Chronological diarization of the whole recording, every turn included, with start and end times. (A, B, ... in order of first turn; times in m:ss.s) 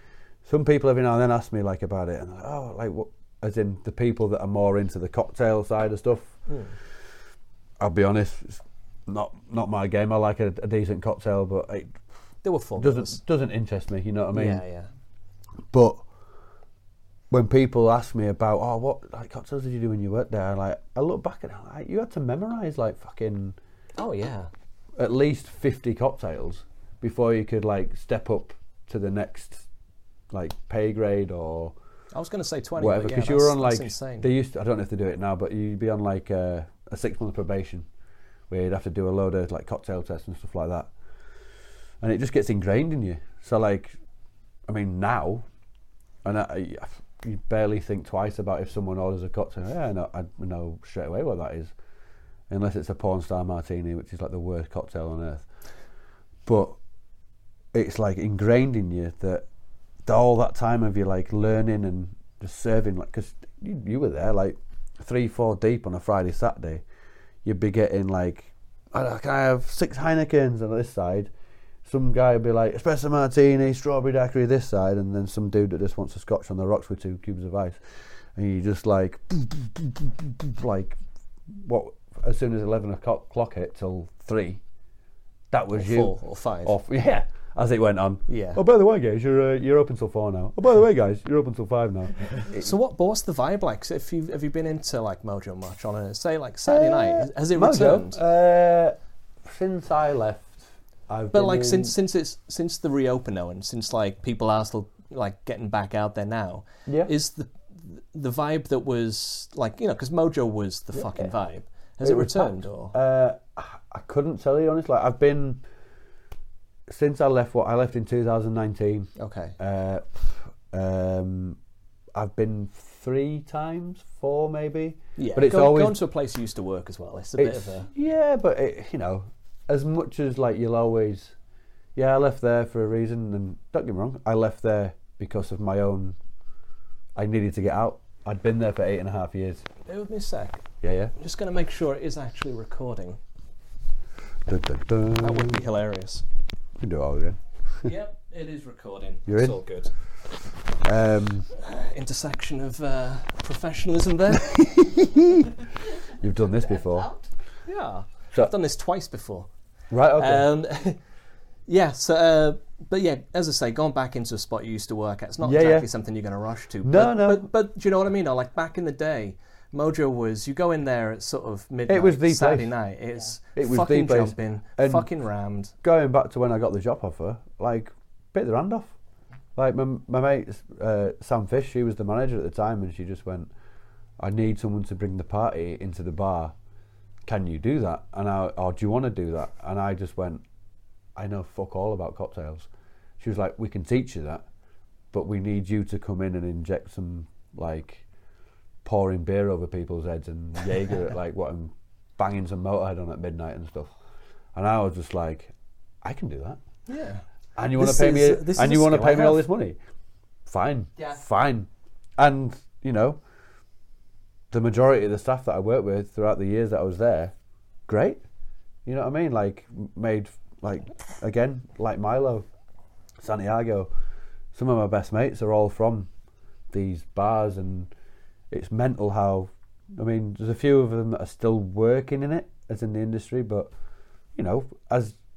0:00.4-0:06.4 A
0:06.5-0:06.7 B
0:07.8-0:12.0 A
0:12.4-0:13.2 B
0:12.8-0:14.6 A
0:14.3-0:14.9 B
0:15.7-0:16.0 A
0:17.3-0:23.6 A
0:24.0-0:24.5 B
0:25.0-0:29.7 A
0:30.3-0:31.7 A
0:32.1-0:34.3 B
0:32.8-0:37.8 A
0:38.5-0:40.9 A
0:42.0-0:43.9 A
0:44.7-0:45.4 A
0:46.2-0:51.7 A
0:52.5-0:55.5 A
0:56.4-0:56.8 A
0:57.7-0:59.4 A
1:00.0-1:06.8 A
1:07.4-1:11.3 A
1:11.8-1:17.8 A
1:18.3-1:24.6 A
1:25.5-1:32.7 A
1:25.7-1:26.7 B
1:28.3-1:28.6 B
1:32.5-1:38.2 B
1:36.6-1:41.9 A
1:41.3-1:52.9 B
1:46.9-1:47.1 A
1:50.9-1:51.3 A
1:52.0-1:55.6 A
1:56.9-2:01.6 A
1:59.2-1:59.5 B
2:02.1-2:06.0 A
2:05.2-2:07.9 B
2:07.4-2:11.3 A
2:12.0-2:16.2 A
2:17.2-2:19.6 A
2:19.8-2:20.6 B
2:20.8-2:21.1 A
2:21.2-2:23.2 B
2:24.5-2:25.6 A
2:25.2-2:26.2 B
2:26.8-2:27.9 A
2:27.8-2:29.9 B
2:29.3-2:29.6 A
2:30.8-2:31.5 A
2:31.5-2:34.6 B
2:34.3-2:35.5 A
2:36.1-2:37.1 A
2:37.6-2:39.5 B
2:39.9-2:40.4 A
2:40.1-2:41.0 B
2:41.7-2:55.7 B
2:45.4-2:45.9 A
2:46.8-2:47.5 A
2:51.9-2:52.7 A
2:53.6-2:55.1 A
2:55.8-2:59.0 A
2:59.6-3:03.5 A
3:04.2-3:06.5 A
3:07.2-3:10.4 A
3:11.2-3:12.7 A
3:13.2-3:14.4 A
3:15.1-3:18.0 A
3:18.8-3:23.9 A
3:24.5-3:25.5 A
3:26.0-3:26.6 A
3:26.9-3:27.2 B
3:27.6-3:29.8 A
3:27.7-3:29.5 B
3:30.5-3:33.2 A
3:34.5-3:37.3 A
3:37.9-3:38.2 A
3:38.8-3:42.4 A
3:43.2-3:43.9 A
3:44.5-3:46.1 A
3:46.7-3:47.9 A
3:48.5-3:53.7 A
3:54.4-3:55.2 A